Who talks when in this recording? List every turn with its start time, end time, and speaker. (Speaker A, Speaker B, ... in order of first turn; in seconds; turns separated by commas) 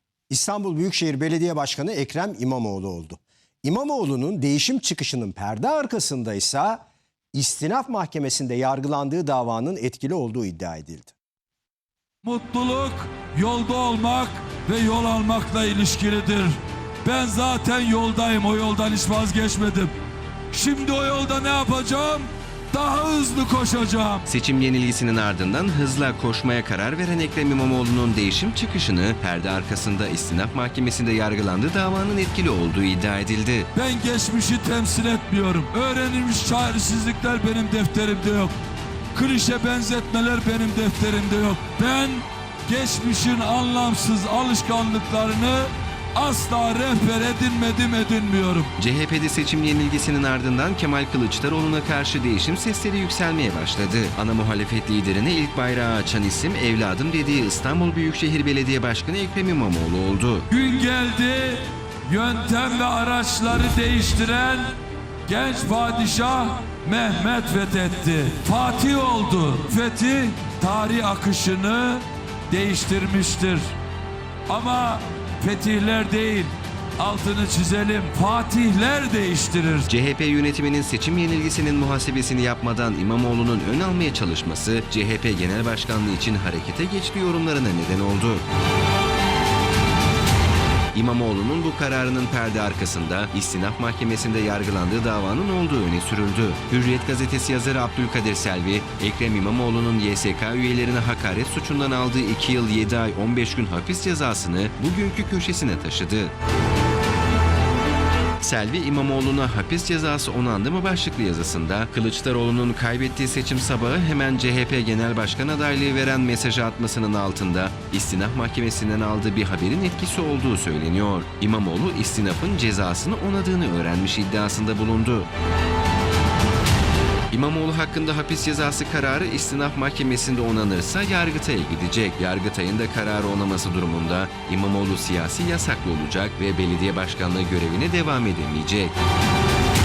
Speaker A: 0.3-6.8, Speaker A: 7.3-11.2, Speaker B: 12.2-19.9, Speaker B: 20.5-24.2, Speaker C: 24.3-33.7, Speaker B: 33.7-38.5, Speaker B: 39.1-48.7, Speaker C: 48.8-60.5, Speaker B: 60.5-73.7, Speaker B: 74.5-79.9, Speaker C: 79.9-88.5, Speaker C: 90.9-106.3, Speaker C: 108.4-125.3, Speaker C: 127.3-138.9